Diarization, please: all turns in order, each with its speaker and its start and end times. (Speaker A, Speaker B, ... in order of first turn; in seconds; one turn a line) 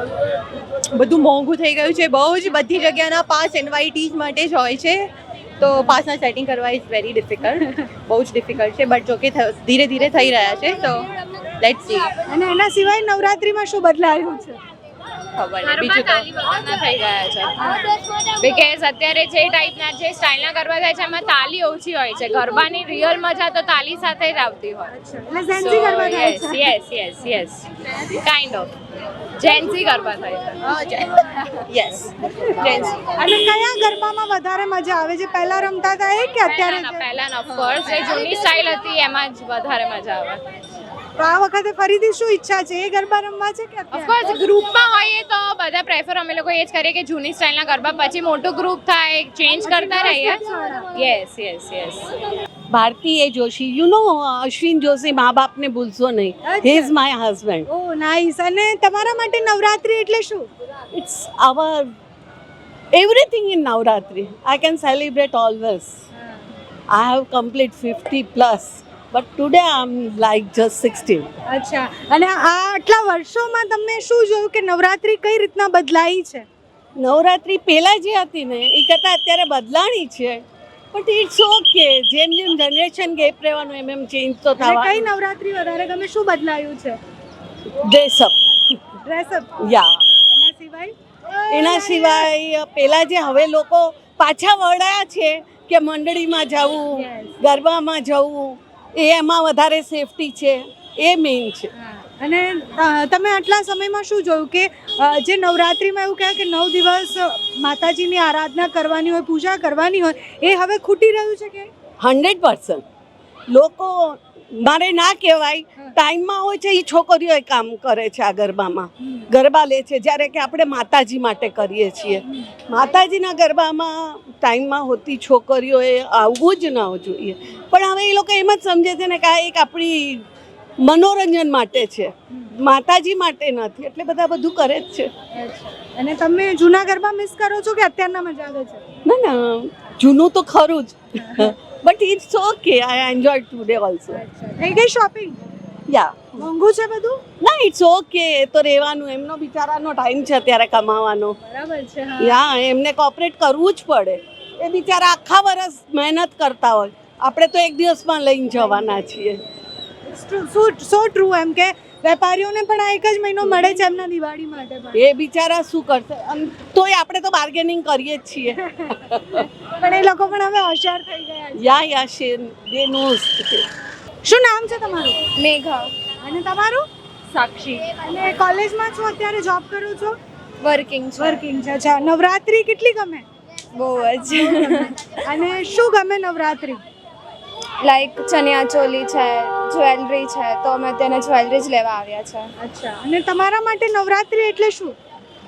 Speaker A: 0.9-5.1
Speaker A: 5.6-11.1
Speaker A: 11.6-12.1
Speaker B: 12.3-14.6
Speaker A: 15.4-16.4
Speaker C: 15.6-17.6
Speaker B: 17.6-17.9
Speaker C: 18.4-24.9
Speaker B: 24.9-26.7
Speaker C: 25.6-28.7
Speaker C: 29.4-30.6
Speaker A: 30.6-31.1
Speaker A: 31.7-33.1
Speaker B: 33.2-37.0
Speaker C: 36.5-40.4
Speaker A: 37.5-38.5
Speaker B: 41.2-44.1
Speaker C: 43.9-50.4
Speaker B: 49.6-50.9
Speaker C: 51.0-52.1
Speaker D: 52.7-57.7
Speaker B: 56.5-56.9
Speaker B: 57.7-60.5
Speaker D: 60.9-61.9
Speaker D: 62.9-66.0
Speaker B: 66.1-66.5
Speaker D: 66.9-71.3
Speaker B: 71.5-76.5
Speaker D: 77.0-80.4
Speaker D: 80.9-85.0
Speaker B: 84.6-87.0
Speaker D: 87.8-88.8
Speaker B: 89.0-90.9
Speaker D: 89.6-90.0
Speaker B: 91.5-92.3
Speaker D: 91.5-101.7
Speaker B: 96.9-97.4
Speaker B: 101.7-111.7
Speaker D: 112.0-112.8
Speaker D: 113.5-130.2
Speaker B: 119.0-119.3
Speaker B: 122.2-122.5
Speaker D: 130.8-135.1
Speaker B: 135.3-138.8
Speaker D: 139.1-144.2
Speaker B: 141.2-141.6
Speaker B: 144.1-145.4
Speaker D: 145.9-146.4
Speaker B: 146.4-147.2
Speaker D: 147.4-151.4
Speaker B: 151.4-152.4
Speaker D: 152.2-159.4
Speaker B: 158.5-159.5
Speaker B: 160.1-165.0
Speaker D: 163.4-163.8
Speaker D: 164.9-169.5
Speaker B: 169.8-171.7
Speaker D: 171.6-173.6
Speaker B: 174.3-175.2
Speaker E: 175.4-175.9
Speaker B: 176.2-176.9
Speaker A: 177.3-177.8
Speaker B: 178.0-180.2
Speaker E: 180.6-181.4
Speaker B: 181.2-183.2
Speaker E: 183.8-185.0
Speaker B: 184.3-186.8
Speaker E: 187.8-192.5
Speaker B: 192.6-194.9